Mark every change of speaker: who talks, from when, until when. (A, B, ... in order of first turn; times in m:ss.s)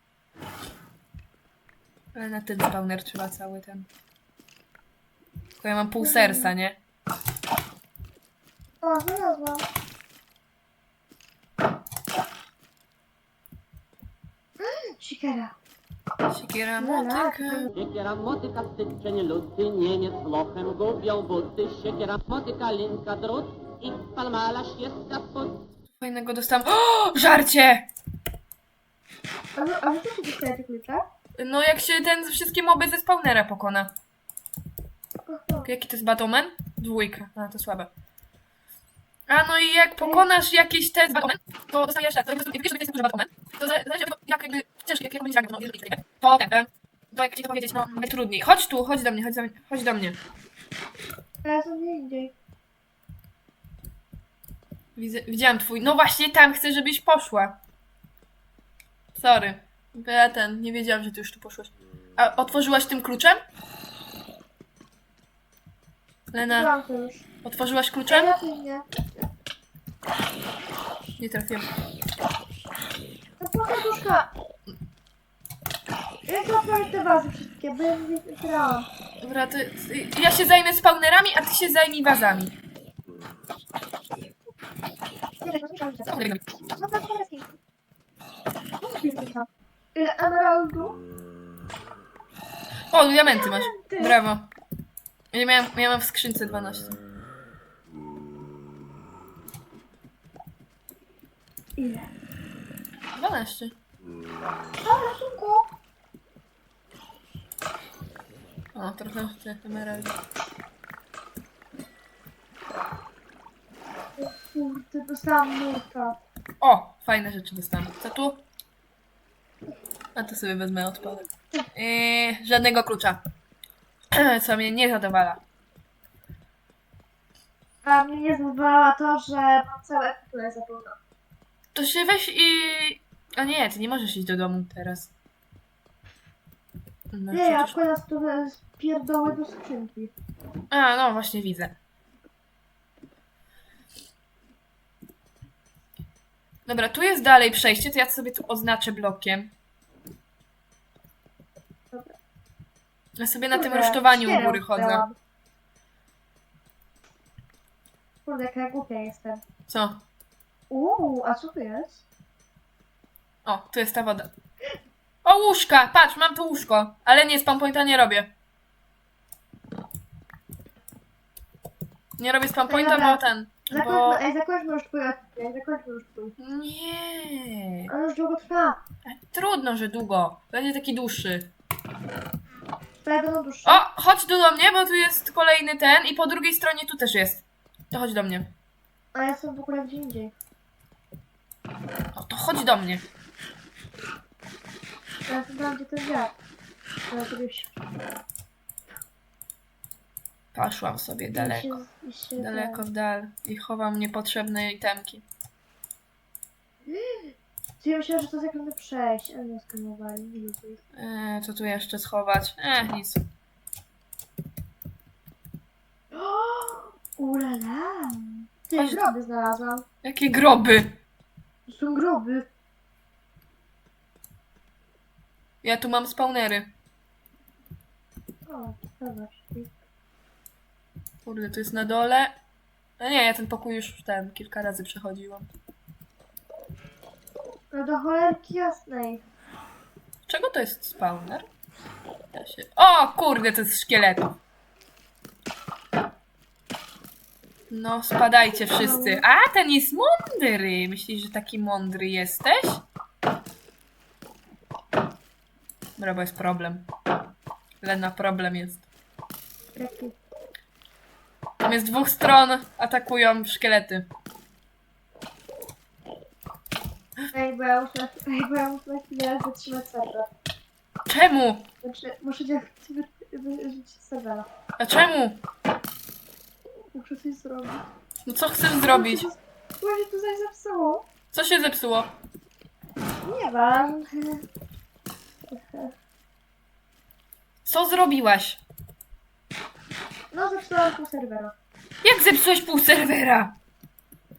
0:02.1-0:03.9 A
0:05.6-0:06.8 A
0:06.0-0:06.5 B
0:08.8-0:09.6 B
0:14.6-0:15.6 B
0:16.3-0:17.7 A
0:16.8-0:17.7 B
0:17.9-0:25.6 C
0:26.0-0:27.9 A
0:29.6-0:31.0 B
0:31.4-0:33.9 A
0:35.3-0:35.7 B
0:35.6-0:37.9 A
0:39.3-0:50.2 A
0:51.4-0:52.3 B
0:55.0-0:57.6 A
0:59.1-1:03.4 A
1:06.3-1:06.7 A
1:06.5-1:07.2 B
1:07.4-1:08.4 A
1:08.1-1:08.9 B
1:11.2-1:11.7 A
1:13.4-1:14.3 B
1:16.3-1:18.9 B
1:19.2-1:22.6 A
1:25.4-1:26.1 B
1:26.1-1:26.4 A
1:26.8-1:27.5 B
1:28.8-1:31.0 B
1:32.9-1:34.5 A
1:33.2-1:34.2 B
1:35.3-1:37.0 A
1:41.8-1:42.1 B
1:43.1-1:43.8 A
1:44.8-1:45.7 B
1:48.8-1:50.2 A
1:54.2-1:56.2 B
1:56.6-1:58.4 A
2:00.2-2:03.2 A
2:04.1-2:05.4 A
2:07.8-2:11.0 B
2:11.8-2:15.1 A
2:17.1-2:17.7 A
2:17.3-2:20.1 B
2:20.7-2:21.7 A
2:26.6-2:29.5 A
2:33.2-2:35.0 A
2:33.5-2:35.1 B
2:38.2-2:39.4 B
2:39.7-2:40.0 A
2:40.7-2:42.0 B
2:43.4-2:44.3 A
2:45.2-2:48.3 A
2:52.2-2:54.2 A
2:52.7-2:56.3 B
2:56.4-2:57.9 A
2:57.9-2:58.8 B
2:59.0-3:01.5 A
3:03.0-3:03.8 B
3:03.6-3:08.5 A
3:09.1-3:10.3 B
3:12.1-3:13.0 A
3:15.3-3:16.3 B
3:17.1-3:17.8 B
3:20.5-3:21.8 A
3:21.3-3:22.8 B
3:22.4-3:25.2 A
3:26.9-3:30.8 B
3:30.9-3:33.2 A
3:36.1-3:39.8 B
3:38.8-3:39.1 A
3:40.0-3:41.0 A
3:41.7-3:42.5 B
3:45.6-3:46.7 A
3:48.5-3:49.7 B
3:51.2-3:52.3 A
3:53.0-3:55.5 A
3:57.7-3:59.2 B
4:00.3-4:01.4 A
4:02.3-4:04.4 A
4:07.7-4:12.8 A
4:08.7-4:09.2 B
4:16.0-4:16.9 A
4:17.8-4:18.9 A
4:19.8-4:20.1 B
4:21.6-4:24.1 A
4:27.3-4:30.3 B
4:31.1-4:31.7 A
4:31.8-4:34.5 B
4:34.8-4:35.4 A
4:36.9-4:37.8 B
4:38.3-4:39.3 A
4:38.8-4:41.0 B
4:41.3-4:42.1 A
4:43.2-4:44.4 B
4:45.5-4:45.9 B
4:47.6-4:48.6 A
4:50.3-4:51.5 B
4:52.0-4:53.6 A